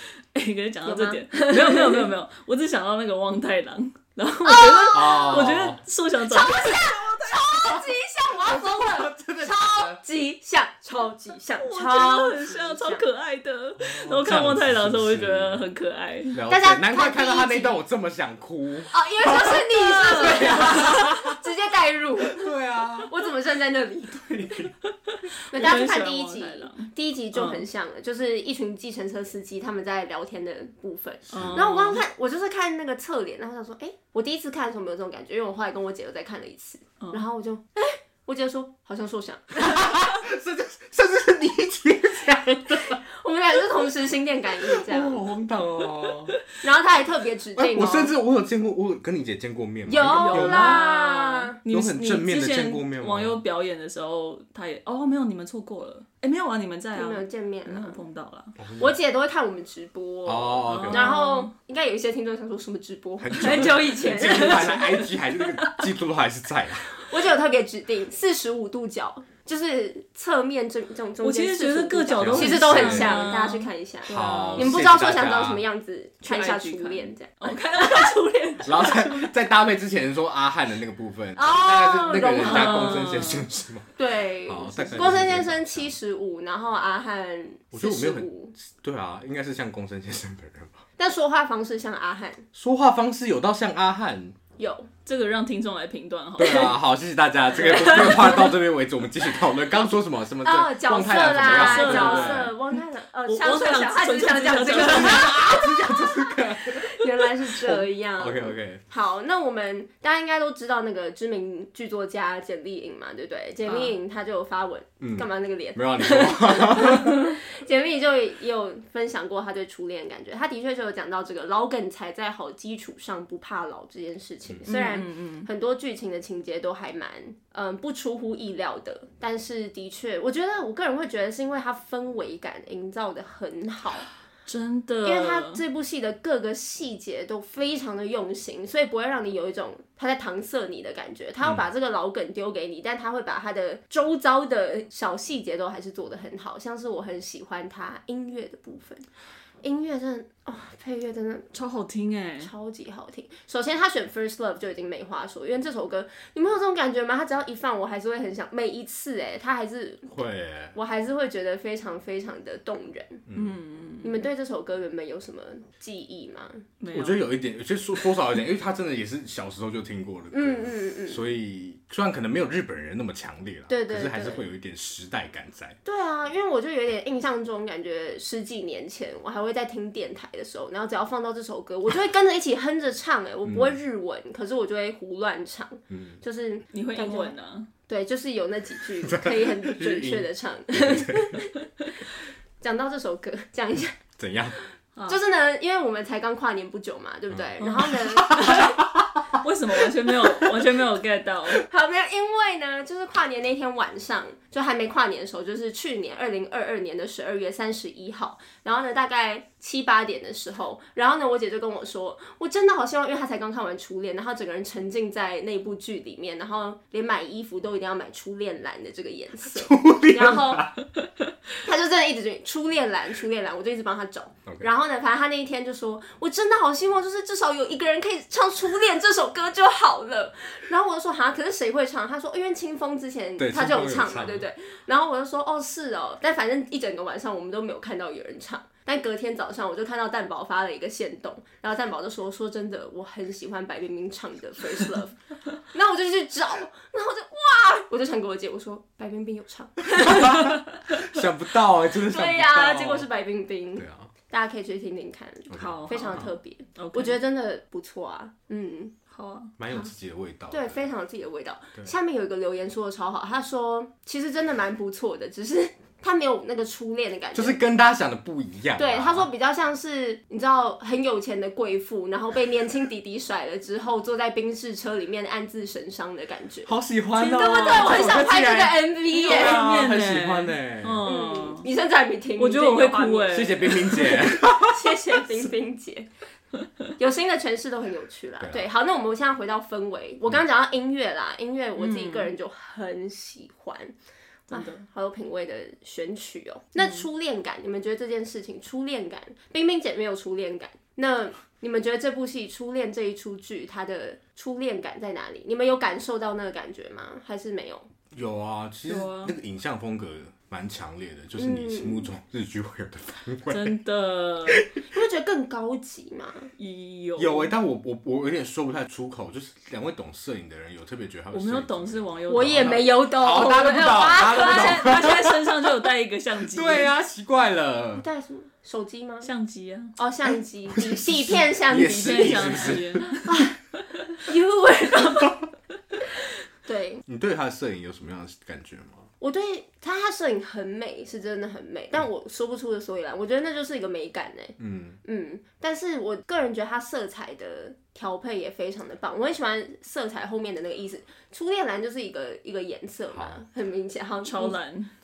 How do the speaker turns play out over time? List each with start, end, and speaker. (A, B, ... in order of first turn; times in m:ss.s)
0:00.3-0:06.9 A
0:00.8-0:02.1 B
0:04.4-0:05.4 B
0:04.9-0:05.8 C
0:06.3-0:13.0 B
0:07.3-0:10.0 C
0:11.6-0:16.4 A
0:13.8-0:15.6 C
0:16.3-0:21.4 C
0:16.5-0:17.8 B
0:18.9-0:22.5 B
0:19.5-0:20.8 A
0:22.3-0:23.1 C
0:23.1-0:24.7 B
0:24.3-0:24.7 C
0:25.1-0:27.7 A
0:25.5-0:40.0 B
0:31.3-0:31.8 C
0:31.3-0:32.0 A
0:37.0-0:37.2 A
0:39.6-0:43.0 C
0:43.2-0:45.2 B
0:44.7-0:46.4 C
0:46.6-0:48.1 B
0:47.6-0:50.9 C
0:49.9-0:51.5 B
0:50.0-0:58.5 A
0:51.7-0:53.4 C
0:57.0-0:58.0 B
0:58.6-0:59.0 C
0:58.8-1:05.1 B
1:00.3-1:01.1 C
1:00.7-1:01.5 A
1:03.2-1:07.0 C
1:03.4-1:05.8 A
1:06.9-1:18.1 B
1:11.2-1:14.8 A
1:12.2-1:13.3 C
1:14.1-1:15.6 C
1:16.3-1:19.3 A
1:18.6-1:23.9 C
1:21.4-1:23.0 B
1:22.4-1:23.5 A
1:24.0-1:28.6 B
1:24.5-1:25.9 C
1:27.7-1:30.8 C
1:31.0-1:32.4 B
1:32.6-1:34.4 C
1:34.6-1:34.9 B
1:35.1-1:36.8 A
1:36.4-1:42.5 C
1:37.7-1:38.5 A
1:37.7-1:38.1 B
1:40.4-2:14.1 B
1:41.4-1:45.4 A
1:44.8-1:48.8 C
1:53.7-1:53.9 A
1:55.0-1:57.4 C
2:04.7-2:05.5 A
2:14.5-2:15.6 A
2:15.0-2:29.1 B
2:29.6-2:31.5 B
2:31.5-2:32.5 A
2:32.4-2:40.2 B
2:40.1-2:40.8 C
2:40.7-2:43.2 B
2:43.3-2:43.6 C
2:43.3-2:44.2 A
2:44.0-2:46.6 B
2:46.8-2:47.2 A
2:46.9-2:55.8 C
2:50.3-2:51.2 B
2:53.7-2:54.5 B
2:55.8-3:07.3 B
3:03.4-3:03.8 C
3:05.9-3:06.2 C
3:06.7-3:07.7 A
3:07.9-3:11.6 B
3:09.0-3:11.4 C
3:12.6-3:14.0 B
3:14.2-3:14.6 C
3:14.6-3:18.8 B
3:17.3-3:19.4 C
3:17.6-3:18.7 A
3:19.3-3:21.7 A
3:20.2-3:20.5 C
3:21.6-3:40.8 B
3:39.5-3:40.8 C
3:41.6-4:10.6 B
3:53.4-3:54.5 C
4:10.0-4:13.1 C
4:12.0-4:18.9 B
4:13.8-4:14.1 C
4:15.5-4:16.4 C
4:15.6-4:17.2 A
4:19.1-4:19.5 A
4:19.6-4:20.9 C
4:20.5-4:27.6 B
4:27.3-4:29.3 C
4:28.8-4:39.9 B
4:36.7-4:41.1 C
4:37.2-4:38.1 A
4:39.2-4:41.7 A
4:41.0-4:46.1 B
4:42.4-4:43.9 A
4:43.3-4:45.3 C
4:47.0-4:53.9 B
4:48.4-4:48.7 C
4:51.8-4:52.3 A
4:54.5-4:54.9 A
4:54.5-5:07.9 B
5:08.1-5:13.7 C
5:08.9-5:09.4 A
5:11.4-5:12.1 B
5:13.5-5:14.7 A
5:14.9-5:16.5 B
5:16.6-5:17.5 A
5:17.2-5:25.7 C
5:21.3-5:22.9 A
5:22.3-5:25.0 B
5:24.1-5:26.9 A
5:26.4-5:28.0 C
5:28.0-5:29.3 B
5:29.2-5:30.0 A
5:30.0-5:33.6 B
5:30.7-5:33.0 C
5:31.7-5:33.3 A
5:34.1-5:35.4 B
5:36.7-5:37.0 B
5:37.1-5:39.1 C
5:39.2-5:54.6 B
5:44.6-5:45.0 C
5:53.2-5:53.4 C
5:54.2-5:54.9 A